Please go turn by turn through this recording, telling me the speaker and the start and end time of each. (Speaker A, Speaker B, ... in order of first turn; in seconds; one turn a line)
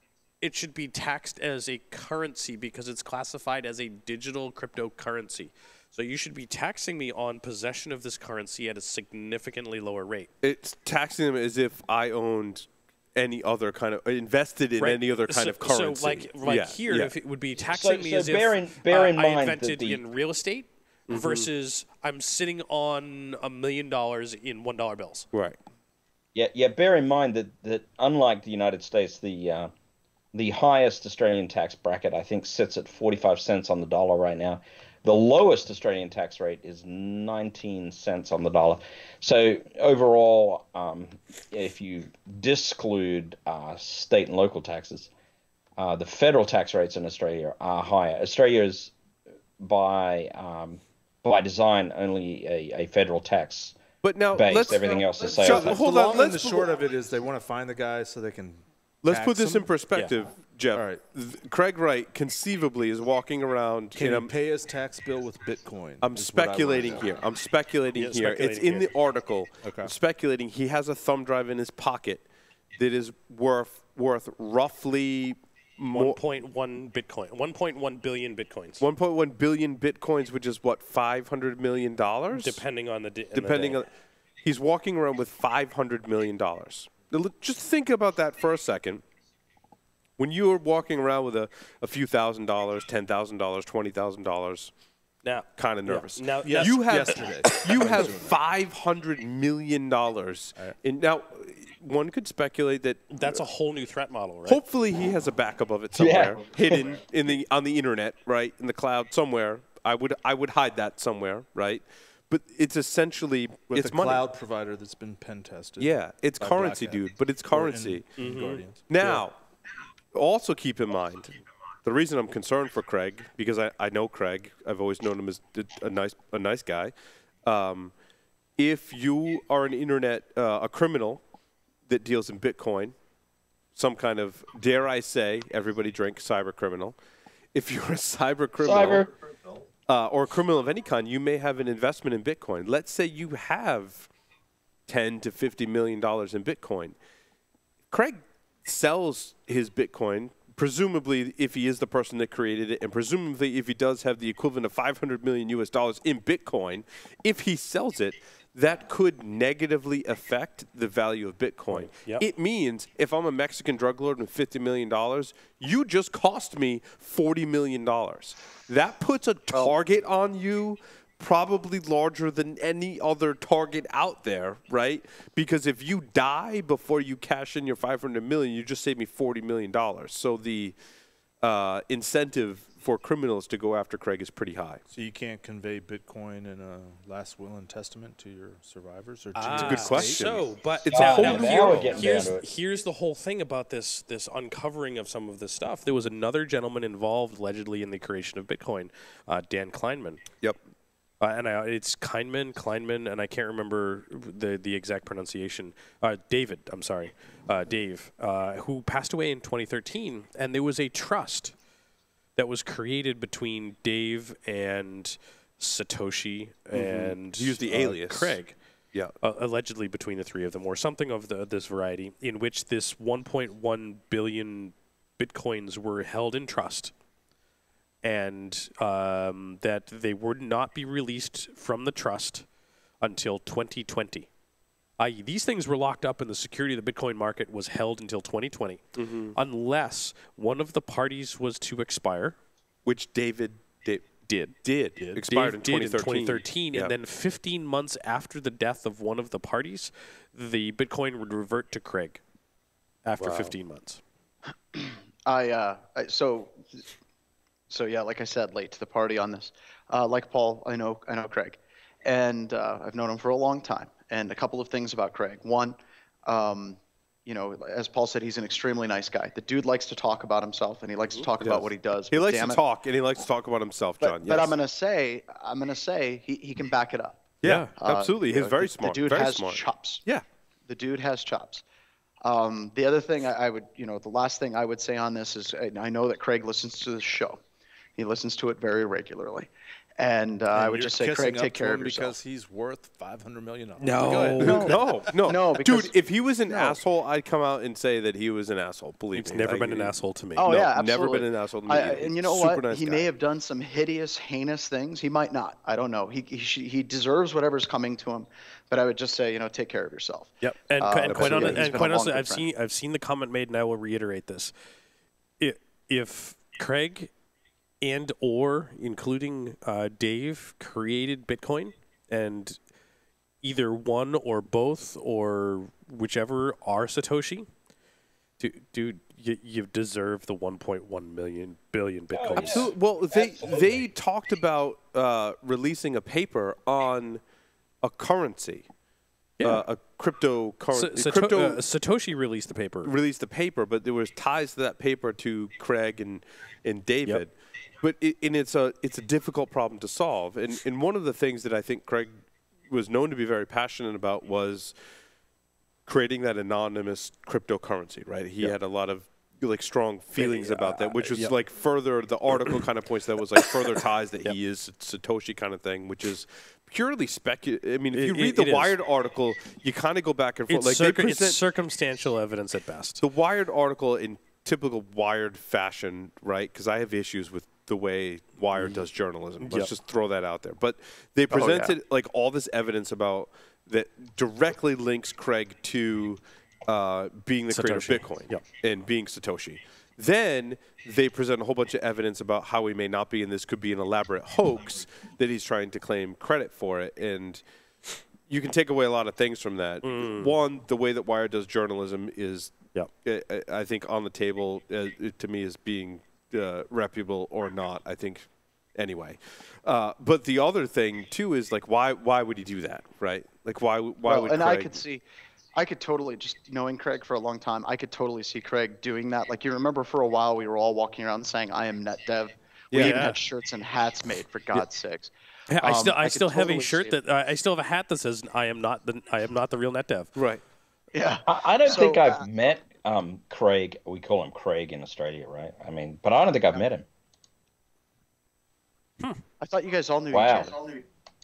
Speaker A: 0.4-10.3
Speaker B: 10.4-17.1
Speaker A: 14.8-25.3
Speaker C: 17.7-20.0
Speaker B: 21.1-21.5
Speaker B: 25.3-25.6
Speaker C: 26.3-29.7
Speaker C: 30.3-45.1
Speaker C: 45.8-48.9
Speaker C: 49.6-53.8
Speaker B: 54.0-56.7
Speaker C: 54.3-55.8
Speaker D: 55.2-59.6
Speaker B: 59.0-64.3
Speaker D: 60.7-61.0
Speaker D: 63.9-67.1
Speaker B: 66.0-72.2
Speaker A: 67.9-68.9
Speaker D: 69.6-69.9
Speaker B: 72.8-76.2
Speaker A: 75.9-78.8
Speaker B: 78.8-82.6
Speaker A: 82.3-83.8
Speaker B: 83.3-83.9
Speaker B: 84.4-89.0
Speaker B: 90.2-94.7
Speaker A: 95.2-97.1
Speaker B: 95.6-103.4
Speaker D: 96.4-98.4
Speaker A: 103.1-104.6
Speaker B: 104.5-114.2
Speaker C: 105.9-106.8
Speaker D: 113.7-119.2
Speaker B: 115.8-118.2
Speaker A: 118.2-119.1
Speaker B: 118.9-119.3
Speaker B: 120.1-126.9
Speaker B: 127.4-127.9
Speaker B: 128.6-131.2
Speaker B: 131.9-132.9
Speaker B: 133.7-136.9
Speaker B: 137.5-139.1
Speaker C: 138.6-139.1
Speaker B: 139.9-144.1
Speaker B: 144.9-146.9
Speaker B: 147.9-180.8
Speaker A: 161.7-162.2
Speaker B: 181.4-184.8
Speaker D: 184.9-190.2
Speaker A: 189.3-200.2
Speaker B: 189.5-192.0
Speaker C: 190.9-192.4
Speaker A: 201.2-211.5
Speaker A: 212.3-218.6
Speaker B: 216.7-218.4
Speaker A: 219.2-226.9
Speaker A: 228.0-232.4
Speaker A: 233.0-234.3
Speaker A: 235.0-242.4
Speaker B: 238.9-239.3
Speaker B: 242.8-246.9
Speaker A: 244.3-252.2
Speaker A: 253.0-254.0
Speaker B: 253.2-253.5
Speaker E: 254.7-256.9
Speaker E: 257.7-272.6
Speaker B: 271.4-274.6
Speaker E: 274.0-277.2
Speaker B: 277.4-280.2
Speaker A: 277.4-277.7
Speaker E: 277.8-280.0
Speaker E: 280.7-281.6
Speaker E: 282.2-287.4
Speaker E: 287.9-292.1
Speaker D: 290.5-294.9
Speaker A: 293.8-294.7
Speaker B: 294.1-303.1
Speaker E: 294.4-296.0
Speaker E: 296.5-296.8
Speaker A: 299.1-300.5
Speaker E: 300.4-312.5
Speaker A: 310.4-314.5
Speaker B: 311.1-311.9
Speaker A: 315.4-317.1
Speaker A: 317.8-322.6
Speaker A: 323.4-327.5
Speaker A: 328.4-332.7
Speaker C: 332.1-333.8
Speaker B: 332.4-337.2
Speaker B: 337.8-338.7
Speaker A: 339.4-339.6
Speaker B: 339.4-341.6
Speaker A: 340.7-342.9
Speaker B: 342.8-352.1
Speaker B: 352.7-354.8
Speaker B: 355.9-371.4
Speaker A: 360.1-361.4
Speaker A: 367.9-368.7
Speaker A: 370.5-373.0
Speaker B: 373.0-397.4
Speaker A: 378.5-378.8
Speaker A: 379.4-379.7
Speaker A: 381.3-381.7
Speaker A: 387.5-388.4
Speaker B: 398.3-414.8
Speaker A: 399.8-400.4
Speaker E: 414.0-415.0
Speaker E: 415.5-427.0
Speaker B: 422.7-423.1
Speaker A: 422.7-423.2
Speaker A: 425.5-430.1
Speaker B: 430.1-430.4
Speaker E: 430.9-432.2
Speaker C: 431.2-436.8
Speaker E: 439.4-440.8
Speaker C: 440.1-440.5